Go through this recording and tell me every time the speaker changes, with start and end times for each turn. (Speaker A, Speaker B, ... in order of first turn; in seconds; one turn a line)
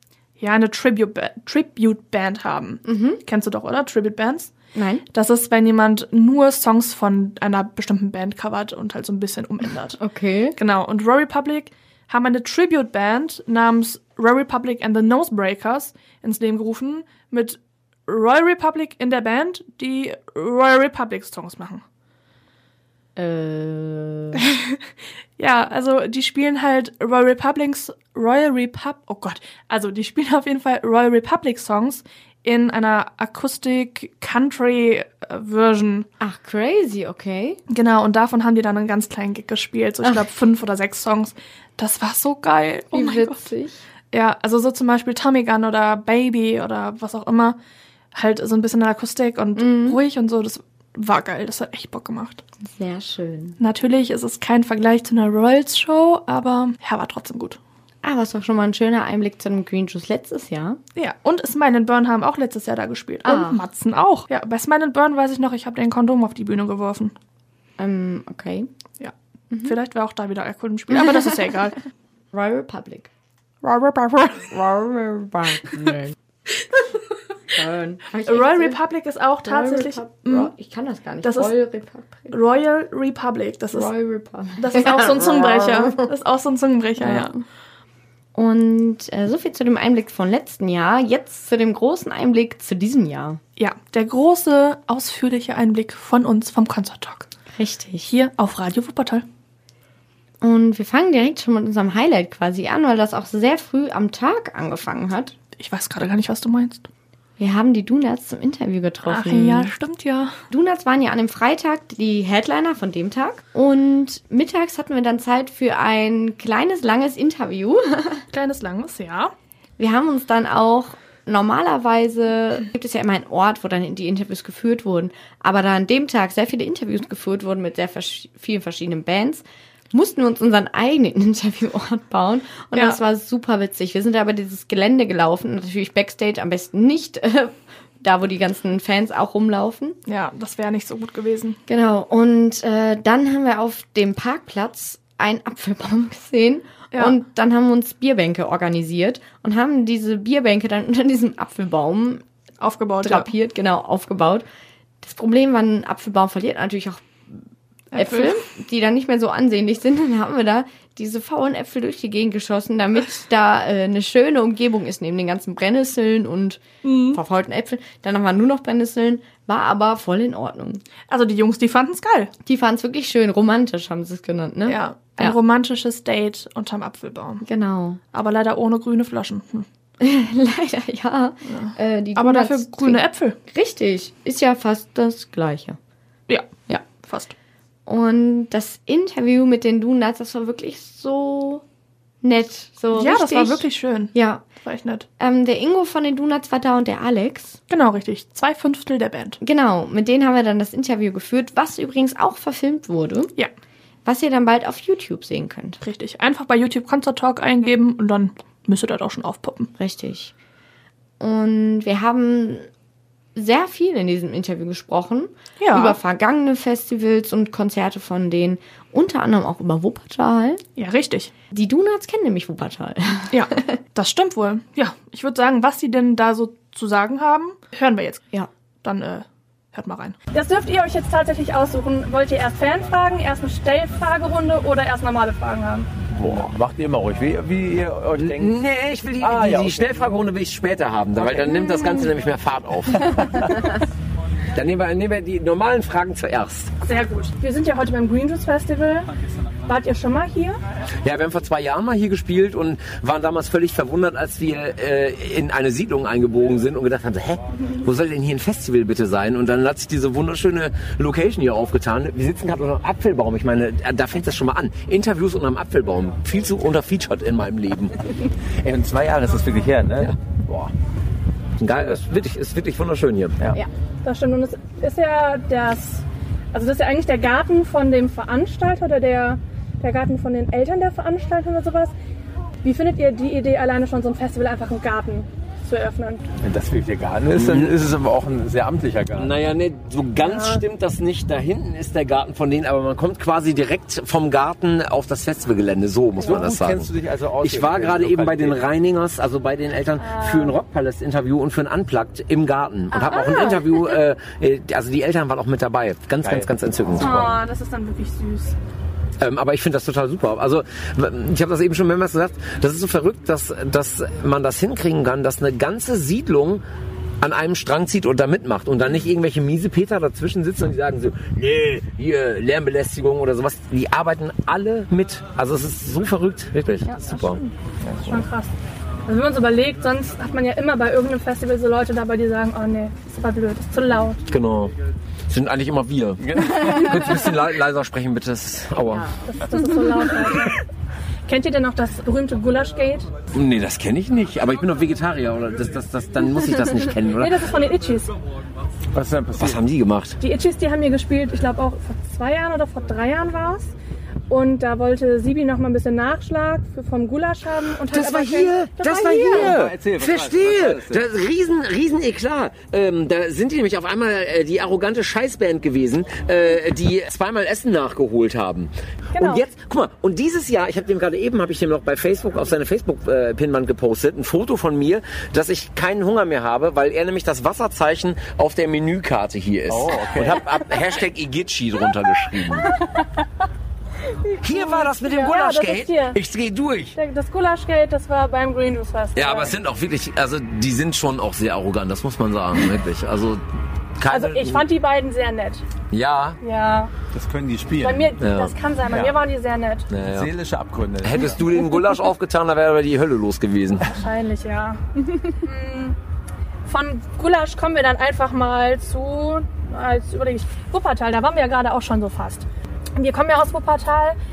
Speaker A: 0.4-4.5
Speaker B: 2.9-3.2
Speaker B: 4.8-5.0
Speaker A: 5.1-10.0
Speaker B: 10.0-10.6
Speaker A: 10.6-21.8
Speaker B: 23.2-24.4
Speaker A: 24.4-24.8
Speaker A: 25.4-36.1
Speaker B: 36.2-37.6
Speaker A: 37.7-43.5
Speaker B: 42.9-43.8
Speaker A: 44.1-47.6
Speaker A: 48.1-52.4
Speaker B: 49.6-50.0
Speaker B: 52.6-53.6
Speaker A: 53.6-57.6
Speaker B: 58.0-60.8
Speaker A: 61.0-67.1
Speaker B: 63.2-63.7
Speaker B: 67.8-68.7
Speaker B: 69.5-69.8
Speaker A: 69.6-71.8
Speaker B: 70.9-71.3
Speaker B: 72.3-73.1
Speaker A: 73.6-74.4
Speaker B: 74.3-76.2
Speaker B: 77.5-78.8
Speaker A: 78.3-80.5
Speaker B: 79.4-82.4
Speaker A: 81.2-81.5
Speaker A: 82.3-83.9
Speaker B: 83.7-86.1
Speaker A: 84.6-87.4
Speaker B: 87.0-87.4
Speaker B: 88.3-93.4
Speaker A: 93.6-97.3
Speaker B: 97.5-98.1
Speaker A: 98.0-99.2
Speaker B: 100.4-105.3
Speaker A: 105.6-106.9
Speaker B: 107.4-109.7
Speaker A: 109.1-110.3
Speaker B: 110.5-118.2
Speaker A: 118.3-119.3
Speaker B: 119.8-140.0
Speaker A: 140.1-141.6
Speaker B: 141.7-152.2
Speaker A: 152.6-153.3
Speaker B: 153.0-154.5
Speaker B: 155.0-157.1
Speaker B: 157.9-170.8
Speaker A: 157.9-158.4
Speaker A: 166.8-167.2
Speaker A: 171.1-172.3
Speaker B: 172.4-175.4
Speaker A: 174.7-177.4
Speaker B: 177.4-178.0
Speaker A: 178.1-179.7
Speaker B: 180.0-185.8
Speaker A: 181.5-183.4
Speaker A: 186.3-187.3
Speaker B: 187.9-191.6
Speaker B: 192.2-194.4
Speaker A: 192.9-194.1
Speaker A: 194.7-195.1
Speaker B: 195.2-197.6
Speaker A: 197.7-199.4
Speaker B: 199.4-203.3
Speaker B: 204.1-205.8
Speaker A: 205.8-209.7
Speaker B: 209.8-210.3
Speaker B: 211.2-212.7
Speaker B: 213.3-220.6
Speaker A: 215.6-216.0
Speaker A: 220.8-221.3
Speaker B: 221.5-223.8
Speaker A: 223.3-228.2
Speaker A: 228.8-230.2
Speaker C: 230.3-235.9
Speaker D: 236.1-238.6
Speaker E: 238.2-243.5
Speaker D: 239.2-239.9
Speaker D: 243.0-243.5
Speaker E: 244.5-246.7
Speaker C: 246.8-249.1
Speaker C: 249.7-250.6
Speaker E: 251.0-268.0
Speaker D: 268.6-270.7
Speaker E: 271.6-273.4
Speaker C: 274.0-281.9
Speaker C: 282.6-286.3
Speaker D: 286.4-289.4
Speaker E: 287.3-287.8
Speaker E: 289.2-307.4
Speaker C: 290.2-290.6
Speaker D: 296.2-298.7
Speaker C: 300.0-300.6
Speaker C: 302.9-303.6
Speaker D: 306.2-307.1
Speaker C: 307.0-308.6
Speaker E: 309.2-316.6
Speaker E: 317.2-327.4
Speaker D: 327.9-328.2
Speaker C: 328.0-328.5
Speaker C: 329.1-334.2
Speaker E: 334.3-334.7
Speaker E: 335.3-339.1
Speaker D: 336.2-337.1
Speaker C: 339.2-340.6
Speaker C: 341.3-343.1
Speaker E: 343.3-347.4
Speaker C: 347.1-348.1
Speaker D: 348.9-349.6
Speaker E: 349.4-350.2
Speaker C: 350.2-353.7
Speaker C: 354.3-359.6
Speaker E: 357.9-382.7
Speaker D: 359.1-361.0
Speaker C: 369.1-369.4
Speaker D: 379.7-380.4
Speaker C: 384.2-386.2
Speaker E: 384.4-387.0
Speaker C: 386.9-389.5
Speaker E: 389.2-393.4
Speaker E: 394.0-394.7
Speaker C: 394.1-395.6
Speaker E: 395.9-396.4
Speaker C: 396.4-396.9
Speaker D: 397.1-398.2
Speaker C: 397.8-399.9
Speaker E: 398.2-399.0
Speaker E: 399.9-400.3
Speaker D: 400.1-401.4
Speaker E: 401.0-403.9
Speaker C: 403.8-406.0
Speaker C: 406.7-412.4
Speaker C: 413.0-414.2